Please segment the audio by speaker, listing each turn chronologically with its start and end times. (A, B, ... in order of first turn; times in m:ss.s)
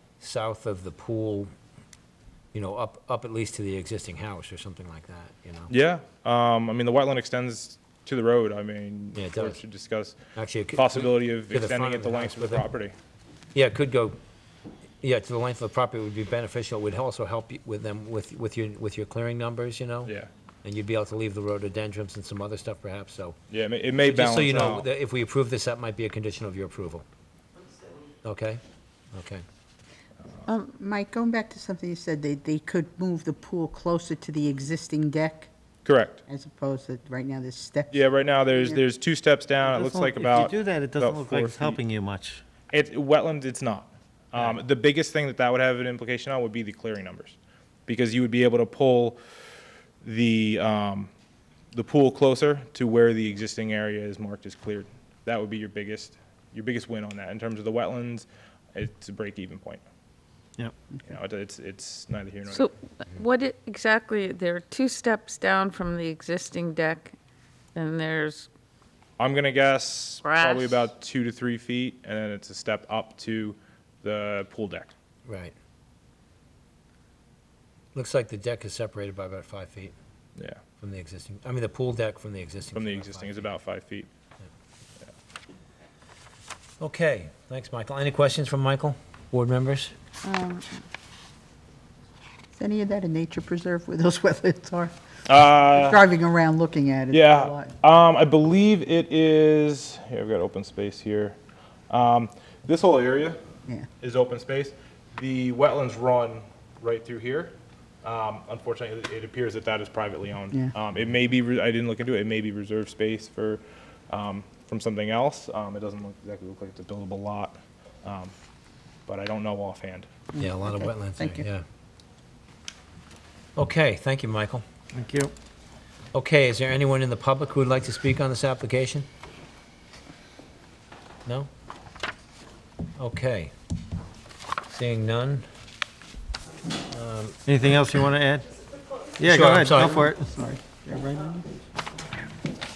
0:00.2-0:01.5 A
0:02.5-0:05.7 A
0:05.7-0:10.2 B
0:09.2-0:09.6 A
0:10.4-0:12.6 A
0:10.7-0:12.9 B
0:13.5-0:14.2 A
0:15.0-0:20.1 A
0:20.6-0:23.4 A
0:23.5-0:24.9 B
0:24.0-0:27.0 A
0:28.2-0:28.6 A
0:29.1-0:29.4 A
0:30.5-0:35.5 C
0:35.9-0:36.2 B
0:36.3-0:38.1 C
0:37.9-0:41.8 B
0:39.7-0:42.4 D
0:42.7-0:49.2 B
0:50.0-0:51.1 B
0:51.7-0:59.8 B
1:01.1-1:02.7 B
1:02.5-1:07.1 E
1:07.8-1:08.5 E
1:09.2-1:14.9 B
1:10.2-1:10.7 E
1:15.3-1:15.5 A
1:18.0-1:19.9 A
1:20.8-1:23.5 A
1:22.7-1:24.1 B
1:26.8-1:29.9 A
1:30.2-1:30.7 C
1:32.6-1:34.9 C
1:35.3-1:36.0 B
1:35.6-1:37.7 C
1:37.1-1:41.4 B
1:41.9-1:43.4 B
1:44.0-1:58.3 B
1:59.1-2:00.1 B
2:00.3-2:01.4 C
2:00.4-2:01.6 A
2:03.6-2:04.6 A
2:04.9-2:05.3 D
2:06.1-2:09.1 A
2:13.0-2:13.5 A
2:14.7-2:15.4 A
2:16.9-2:17.4 A
2:17.5-2:18.5 D
2:19.2-2:20.3 D
2:19.2-2:20.1 A
2:20.2-2:21.4 C